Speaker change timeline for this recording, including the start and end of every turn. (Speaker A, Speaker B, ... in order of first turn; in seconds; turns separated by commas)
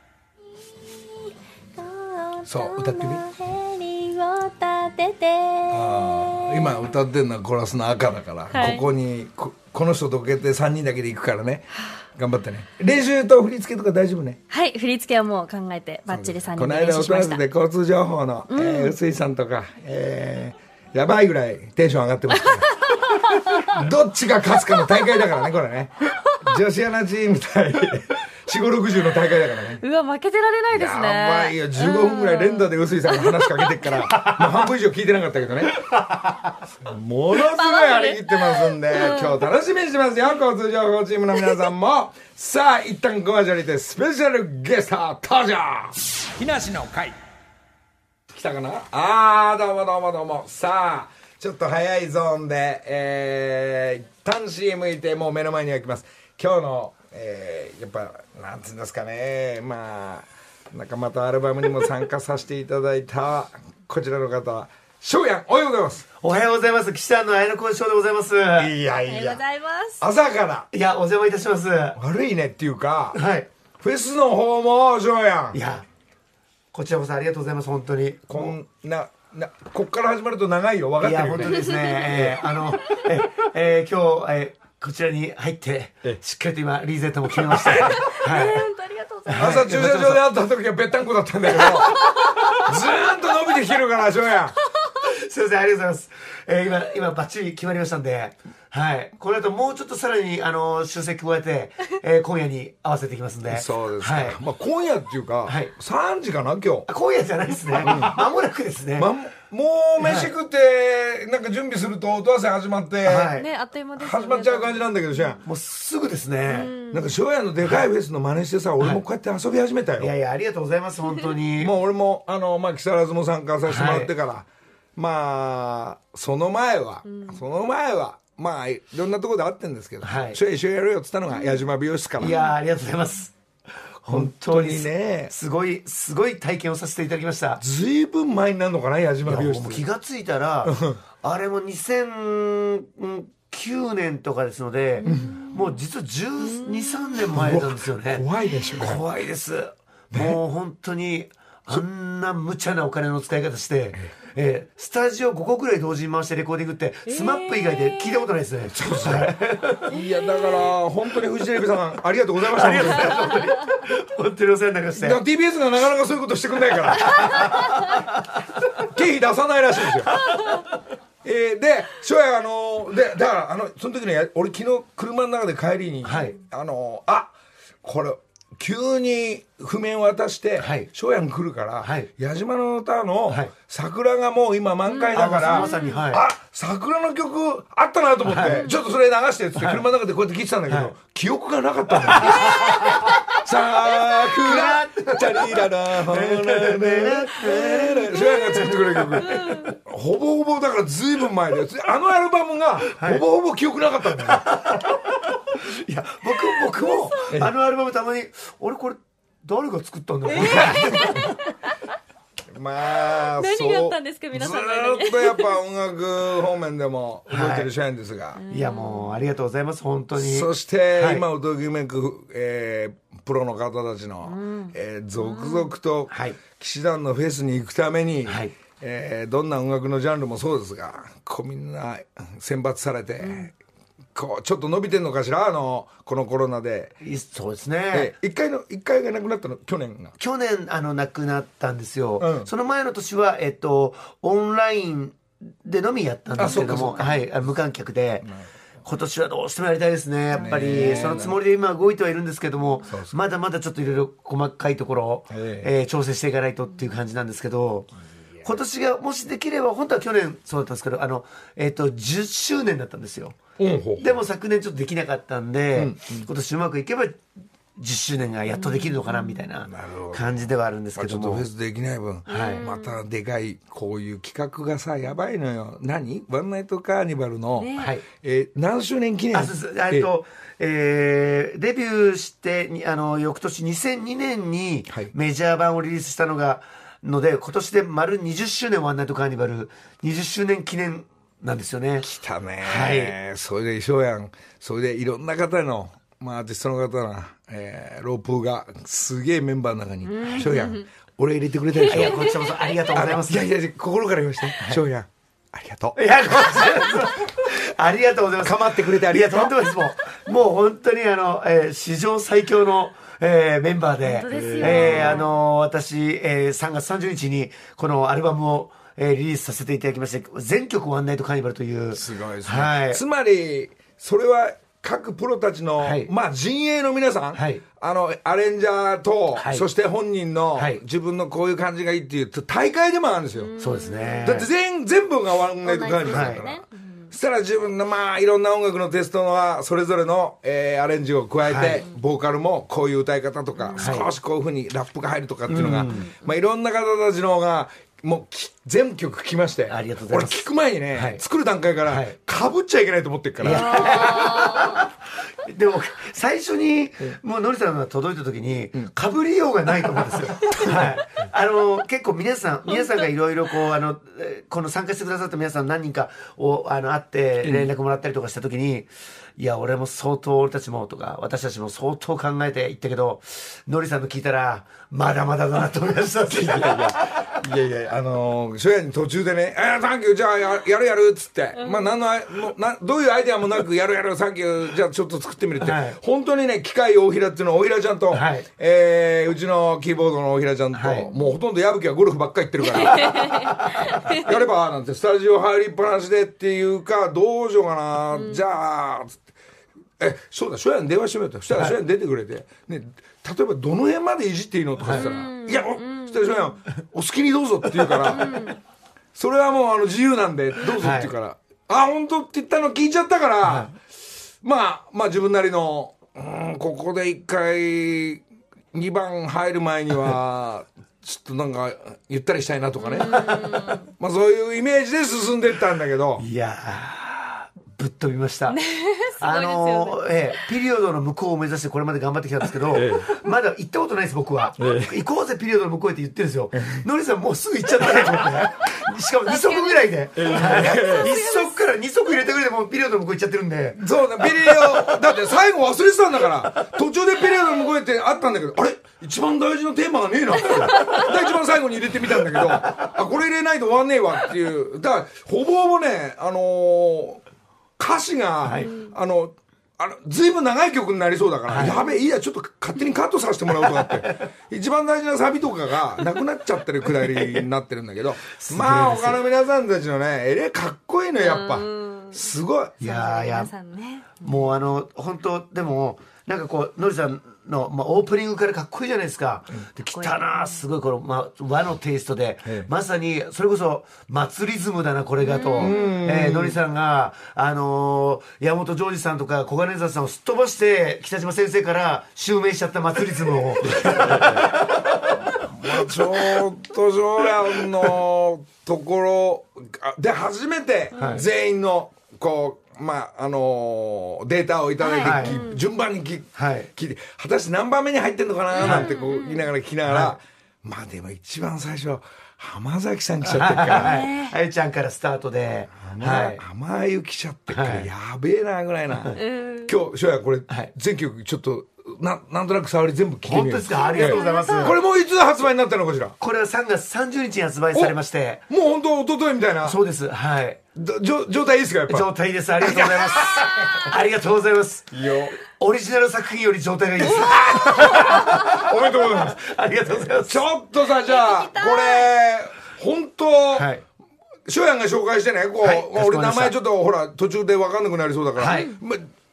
Speaker A: 0.9-6.7, Speaker B: 2.4-3.2, Speaker B: 5.7-14.4, Speaker A: 8.5-8.8, Speaker A: 14.5-17.4, Speaker B: 16.1-22.9, Speaker A: 18.5-18.9, Speaker A: 22.9-23.6, Speaker B: 23.5-29.8, Speaker A: 29.8-33.6, Speaker B: 30.7-36.0, Speaker B: 36.8-47.2, Speaker A: 37.4-39.4, Speaker B: 48.3-66.0, Speaker C: 66.2-68.7, Speaker B: 68.6-69.4, Speaker A: 69.1-70.0, Speaker B: 70.0-70.7, Speaker C: 70.7-72.0, Speaker B: 72.0-73.2, Speaker C: 73.1-73.5, Speaker B: 73.8-75.6, Speaker C: 75.5-75.8, Speaker C: 76.7-78.5, Speaker B: 78.3-82.5, Speaker C: 81.0-88.7, Speaker B: 87.5-88.1, Speaker A: 87.8-89.5, Speaker C: 89.2-90.3, Speaker B: 89.4-94.6, Speaker C: 95.0-104.4, Speaker B: 103.5-106.9, Speaker C: 105.5-105.7, Speaker C: 106.9-109.1, Speaker B: 107.8-108.2, Speaker B: 109.0-113.3, Speaker C: 110.0-110.3, Speaker C: 113.0-113.5, Speaker A: 113.3-114.9, Speaker B: 114.0-115.4, Speaker C: 115.4-116.7, Speaker A: 116.5-117.0, Speaker B: 116.9-120.1, Speaker C: 120.0-121.7, Speaker B: 121.5-132.4, Speaker C: 123.7-124.1, Speaker A: 127.1-127.4, Speaker C: 130.0-130.4, Speaker C: 132.2-133.3, Speaker C: 134.0-137.6, Speaker B: 134.1-135.3, Speaker B: 137.6-139.8, Speaker C: 139.2-148.2, Speaker B: 140.6-141.0, Speaker A: 145.0-145.7, Speaker B: 145.0-145.4, Speaker A: 146.4-147.2, Speaker B: 147.3-149.0, Speaker C: 148.8-159.9, Speaker B: 150.1-150.4, Speaker A: 157.3-158.0, Speaker B: 158.7-163.3, Speaker C: 162.4-165.2, Speaker B: 164.9-167.5, Speaker C: 167.1-167.5, Speaker B: 168.8-170.2, Speaker B: 171.2-204.6, Speaker C: 176.0-176.3, Speaker C: 180.6-180.9, Speaker C: 181.8-182.1, Speaker A: 184.9-186.0, Speaker C: 185.1-186.2, Speaker C: 188.2-188.7, Speaker C: 189.6-189.8, Speaker C: 190.7-190.9, Speaker C: 194.4-199.4, Speaker A: 199.2-199.7, Speaker C: 202.9-203.2, Speaker C: 204.3-205.0, Speaker C: 205.6-211.3, Speaker A: 210.4-211.5, Speaker B: 210.4-211.1, Speaker B: 212.5-218.4, Speaker A: 213.4-215.5, Speaker C: 217.3-217.7, Speaker A: 218.3-219.2, Speaker C: 218.5-221.2, Speaker B: 220.2-233.5, Speaker A: 224.2-225.7, Speaker C: 226.1-226.4, Speaker C: 228.3-228.5, Speaker A: 233.2-233.5, Speaker B: 234.1-236.9, Speaker C: 237.0-238.1, Speaker B: 237.9-240.1, Speaker C: 240.2-248.3, Speaker B: 242.2-242.5, Speaker B: 246.4-247.3, Speaker C: 248.8-257.9, Speaker B: 250.3-251.4, Speaker A: 250.4-251.1, Speaker B: 252.9-253.2, Speaker B: 255.3-255.7, Speaker C: 258.4-263.4, Speaker B: 263.6-264.1, Speaker C: 264.0-267.2, Speaker B: 265.7-266.3, Speaker C: 267.8-271.4, Speaker A: 268.6-269.4, Speaker B: 269.6-270.4, Speaker B: 270.9-280.1, Speaker C: 272.3-272.6, Speaker A: 272.3-273.0, Speaker A: 277.6-277.9, Speaker C: 277.8-278.0, Speaker C: 279.3-292.1, Speaker B: 292.0-302.4, Speaker C: 292.6-293.1, Speaker A: 300.0-300.9, Speaker C: 301.9-303.5, Speaker A: 301.9-302.5, Speaker B: 302.9-306.9, Speaker C: 305.9-323.0, Speaker B: 308.4-309.6, Speaker A: 314.0-315.3, Speaker B: 314.3-315.2, Speaker B: 321.9-333.5, Speaker C: 325.8-326.1, Speaker C: 327.3-327.6, Speaker C: 329.3-329.7, Speaker C: 330.5-330.8, Speaker A: 333.4-334.3, Speaker C: 333.6-334.5, Speaker B: 334.2-354.5, Speaker A: 335.6-337.1, Speaker C: 336.1-336.4, Speaker C: 341.4-341.8, Speaker A: 343.6-343.9, Speaker C: 343.8-344.1, Speaker C: 345.5-346.1, Speaker C: 349.7-351.2, Speaker C: 351.9-352.1, Speaker C: 353.4-354.9, Speaker A: 353.5-354.9, Speaker C: 355.4-377.1, Speaker B: 360.5-361.0, Speaker B: 367.4-367.7, Speaker B: 376.3-399.2, Speaker A: 381.6-381.9, Speaker C: 385.6-386.0, Speaker C: 388.1-388.4, Speaker C: 390.7-391.1, Speaker A: 392.9-394.2, Speaker A: 398.1-398.4, Speaker B: 400.0-408.4, Speaker C: 404.8-405.1, Speaker A: 404.9-406.6, Speaker A: 408.0-408.6, Speaker B: 409.1-413.7, Speaker C: 410.8-411.1, Speaker C: 413.4-413.7, Speaker B: 414.4-426.2, Speaker A: 422.8-423.9, Speaker C: 426.2-428.6, Speaker A: 428.5-430.1, Speaker C: 429.2-445.0, Speaker B: 432.7-433.1, Speaker B: 434.6-434.9, Speaker B: 436.6-436.8, Speaker A: 439.2-441.6, Speaker B: 440.1-441.1, Speaker B: 443.8-457.2, Speaker B: 457.8-472.8, Speaker C: 458.4-458.7, Speaker A: 458.6-458.9, Speaker C: 461.5-461.8, Speaker C: 467.0-467.4, Speaker C: 468.3-469.2, Speaker A: 471.2-472.2, Speaker C: 472.8-473.5, Speaker A: 472.8-474.2, Speaker C: 474.2-494.8, Speaker A: 479.9-480.6, Speaker A: 485.2-486.0, Speaker B: 485.5-486.6, Speaker B: 493.6-494.6, Speaker B: 495.4-514.0, Speaker A: 500.9-501.2, Speaker C: 500.9-501.2, Speaker A: 504.8-505.6, Speaker C: 505.0-505.4, Speaker C: 506.4-506.7, Speaker A: 508.5-509.5, Speaker C: 508.6-508.9, Speaker C: 509.9-510.2, Speaker C: 513.2-516.4, Speaker A: 513.7-514.3, Speaker B: 515.7-526.2, Speaker C: 517.5-517.9, Speaker A: 519.1-519.8, Speaker C: 523.2-524.8, Speaker A: 523.7-524.7, Speaker C: 526.2-528.4, Speaker B: 528.5-529.8, Speaker C: 529.6-530.6, Speaker B: 530.7-533.8, Speaker C: 531.9-534.9, Speaker B: 534.9-535.4, Speaker C: 535.4-540.4, Speaker B: 537.0-543.7, Speaker A: 541.0-542.1, Speaker C: 543.5-543.8, Speaker B: 544.5-549.1, Speaker C: 545.6-546.5, Speaker C: 548.4-548.7